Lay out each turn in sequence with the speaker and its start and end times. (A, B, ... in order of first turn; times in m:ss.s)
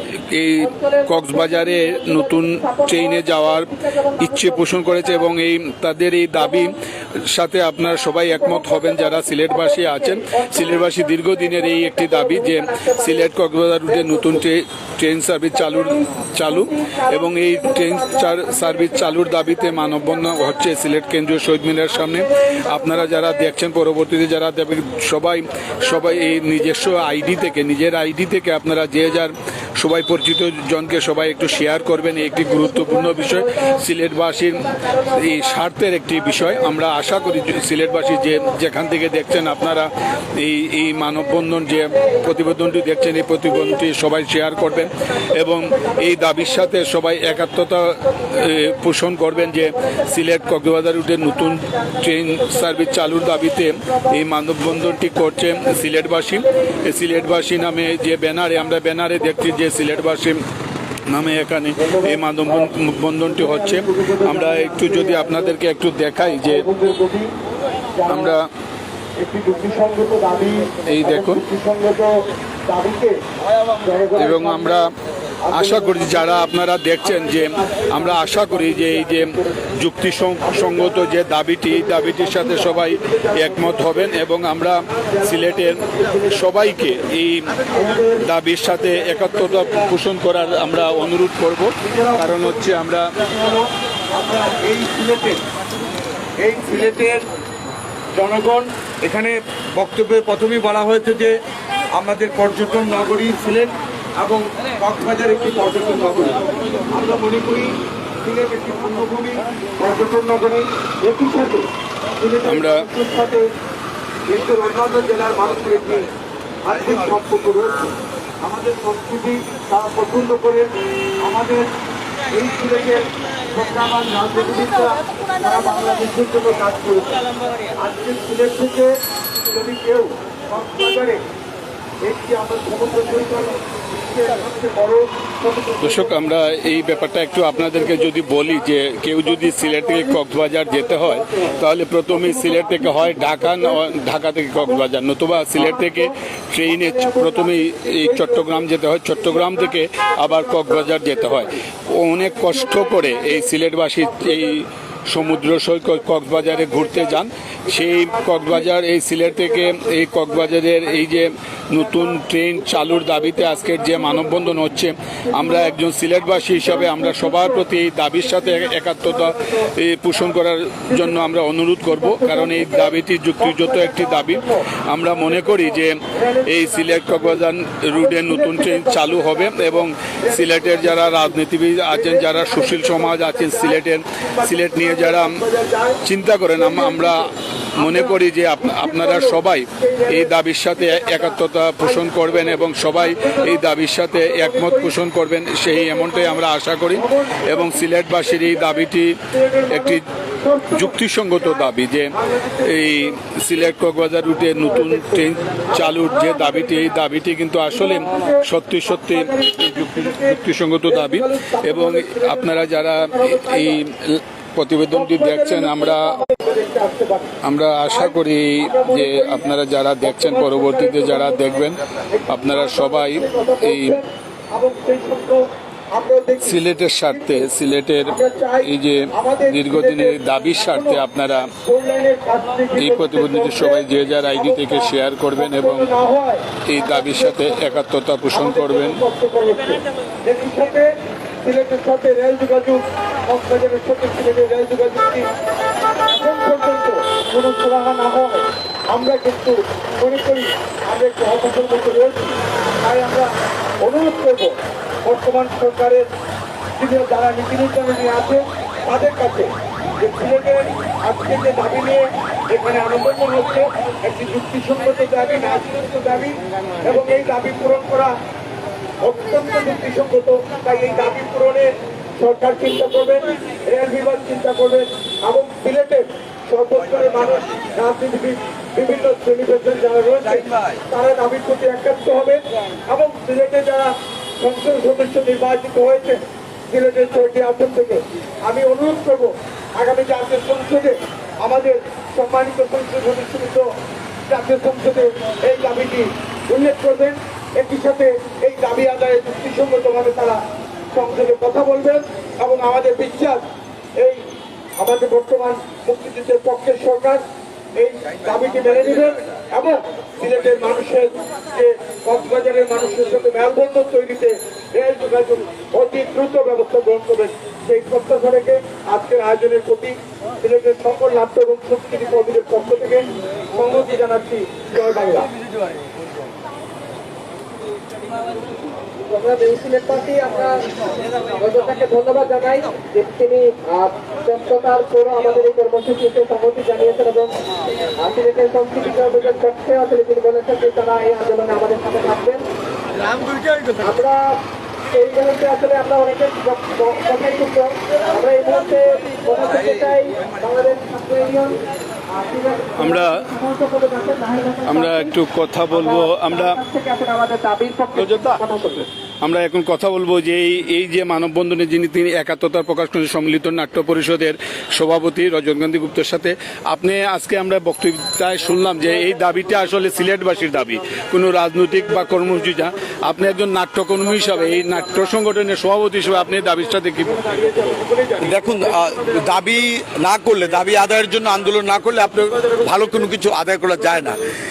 0:00.3-0:06.7 A
0:00.6-0:05.2 B
0:06.4-0:06.7 B
0:07.3-1:00.4 A
0:08.3-0:13.3 B
0:13.9-0:14.5 B
0:15.5-0:20.8 B
0:21.9-0:23.5 B
0:26.4-0:27.3 B
0:31.6-0:33.8 B
0:34.6-0:35.6 B
0:36.2-0:38.5 B
0:41.1-0:47.5 B
0:48.0-0:56.8 B
1:01.1-1:06.7 A
1:01.8-1:05.5 C
1:06.4-1:07.3 C
1:08.0-1:08.3 C
1:08.1-1:08.5 A
1:09.2-1:13.2 C
1:10.9-1:11.4 A
1:13.8-1:14.8 C
1:14.2-1:14.9 A
1:15.5-1:19.4 C
1:15.5-1:27.5 A
1:20.4-1:24.2 C
1:25.1-1:26.5 C
1:27.7-1:28.2 C
1:28.2-1:33.2 A
1:29.0-1:29.9 C
1:31.8-1:35.4 C
1:36.4-1:37.3 C
1:38.1-1:41.3 C
1:41.9-1:51.6 C
1:52.2-1:53.5 C
1:52.4-1:52.9 A
1:54.3-1:56.1 C
1:56.6-2:01.7 C
2:02.3-2:07.2 C
2:07.8-2:08.9 C
2:09.5-2:11.2 C
2:12.0-2:16.2 C
2:15.8-2:56.0 A
2:20.8-2:21.5 C
2:22.1-2:23.7 C
2:28.1-2:28.4 C
2:29.2-2:29.7 C
2:30.3-2:31.5 C
2:32.4-2:34.4 C
2:36.6-2:37.1 C
2:37.7-2:38.7 C
2:39.3-2:40.3 C
2:43.4-2:44.4 C
2:47.0-2:47.6 B
2:51.9-2:52.9 B
2:53.7-2:54.2 B
2:56.5-3:05.4 A
2:58.1-2:58.6 B
2:58.3-2:59.7 C
3:00.2-3:01.4 C
3:01.9-3:07.2 C
3:06.0-3:19.2 A
3:07.8-3:13.6 C
3:14.2-3:14.9 C
3:15.7-3:16.4 C
3:16.9-3:18.8 C
3:19.4-3:20.9 C
3:19.7-3:20.0 A
3:20.7-3:36.2 A
3:22.2-3:22.6 C
3:24.5-3:26.6 C
3:27.7-3:28.4 C
3:29.0-3:33.7 C
3:34.9-3:37.3 C
3:37.4-3:44.0 A
3:37.9-3:39.5 C
3:40.0-3:47.5 C
3:46.4-3:51.5 A
3:48.0-3:51.0 C
3:51.6-4:00.9 C
3:52.8-3:55.9 A
3:56.7-3:59.0 A
4:01.4-4:05.3 C
4:06.1-4:16.0 C
4:16.8-4:28.1 C
4:29.0-4:53.7 C
4:54.3-5:00.4 C
5:00.9-5:03.4 C
5:04.8-5:07.2 C
5:07.8-5:25.3 C
5:29.0-5:30.6 B
5:31.4-5:37.3 B
5:38.0-5:42.5 B
5:43.8-5:44.4 B
5:44.9-5:51.6 B
5:52.1-5:55.1 B
5:52.8-5:53.2 A
5:54.7-5:56.6 A
5:55.7-5:58.9 B
5:58.0-5:58.4 A
5:59.2-6:17.3 A
6:14.3-6:14.9 C
6:17.0-6:19.6 C
6:18.2-6:24.2 D
6:22.2-6:23.2 C
6:23.8-6:24.2 C